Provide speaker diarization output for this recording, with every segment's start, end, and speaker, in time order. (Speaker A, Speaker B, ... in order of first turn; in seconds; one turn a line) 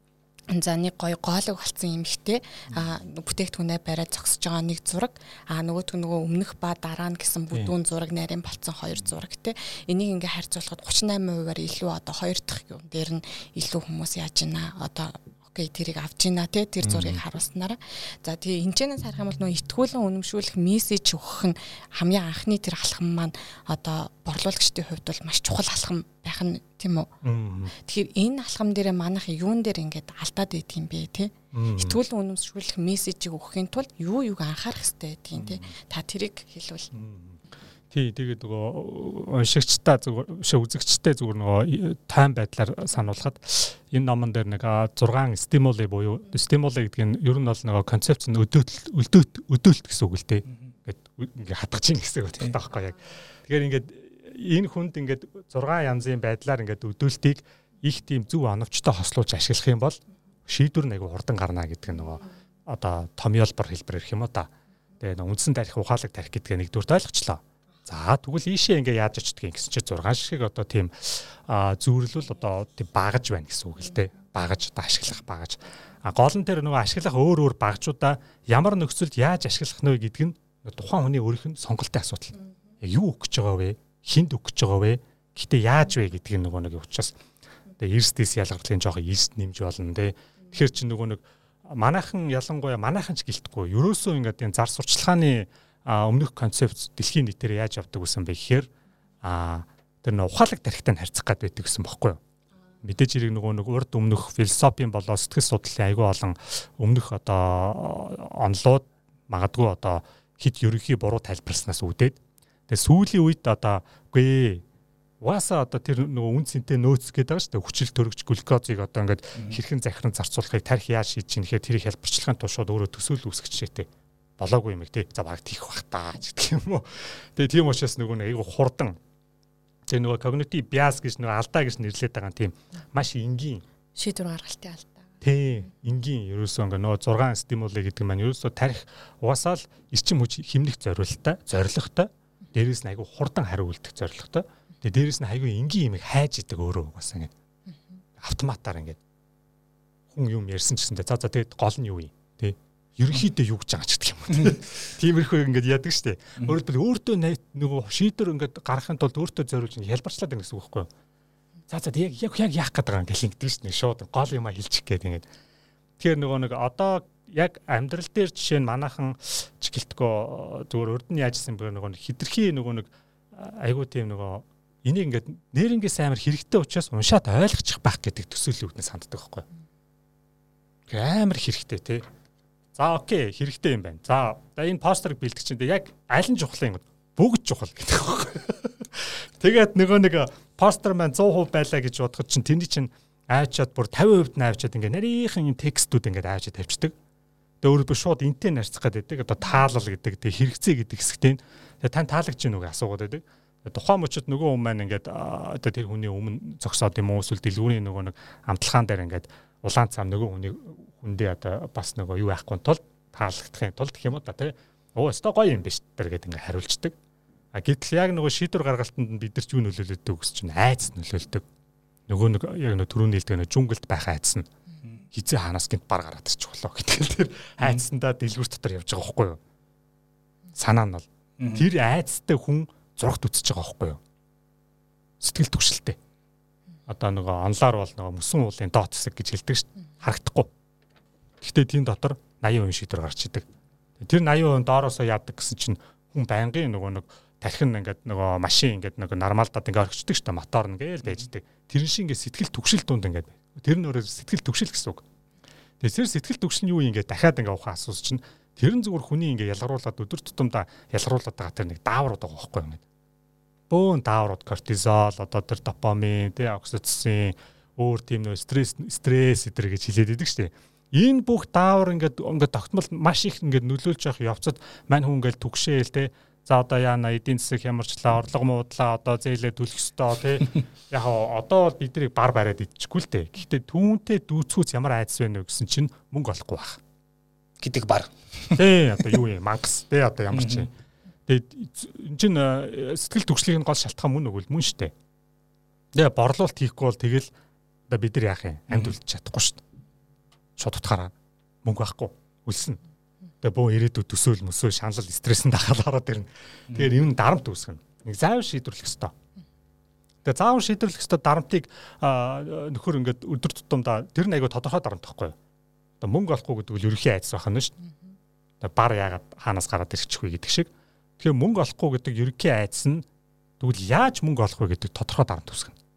Speaker A: 0.5-27.1
Speaker B: 16.8-17.2
Speaker B: 27.2-27.7
Speaker A: 27.7-36.9
Speaker B: 31.5-32.0
Speaker B: 35.4-35.7
Speaker B: 36.9-37.4
Speaker B: 37.9-87.2
Speaker B: 87.8-98.7
Speaker B: 99.2-102.2
Speaker B: 102.8-114.6
Speaker B: 115.2-129.0
Speaker B: 129.9-133.6
Speaker A: 133.9-135.0
Speaker B: 135.2-147.3
Speaker B: 148.2-149.0
Speaker B: 150.1-160.9
Speaker B: 161.7-165.2
Speaker B: 166.0-179.4
Speaker B: 180.9-182.1
Speaker B: 182.7-196.9
Speaker B: 197.6-216.9
Speaker B: 217.5-221.4
Speaker B: 222.1-224.5
Speaker B: 225.1-229.4
Speaker B: 230.5-234.0
Speaker C: 231.4-231.7
Speaker B: 235.2-236.0
Speaker B: 236.9-240.5
Speaker B: 241.4-243.4
Speaker B: 244.0-255.0
Speaker B: 255.8-262.8
Speaker B: 263.7-286.8
Speaker C: 287.6-289.2
Speaker B: 288.5-290.7
Speaker C: 290.3-290.7
Speaker B: 291.3-294.9
Speaker B: 295.9-297.3
Speaker B: 297.9-299.6
Speaker C: 298.7-298.9
Speaker B: 300.6-301.1
Speaker B: 301.6-302.8
Speaker B: 303.4-309.1
Speaker B: 310.2-315.4
Speaker B: 316.0-317.8
Speaker B: 318.6-323.1
Speaker B: 323.6-325.8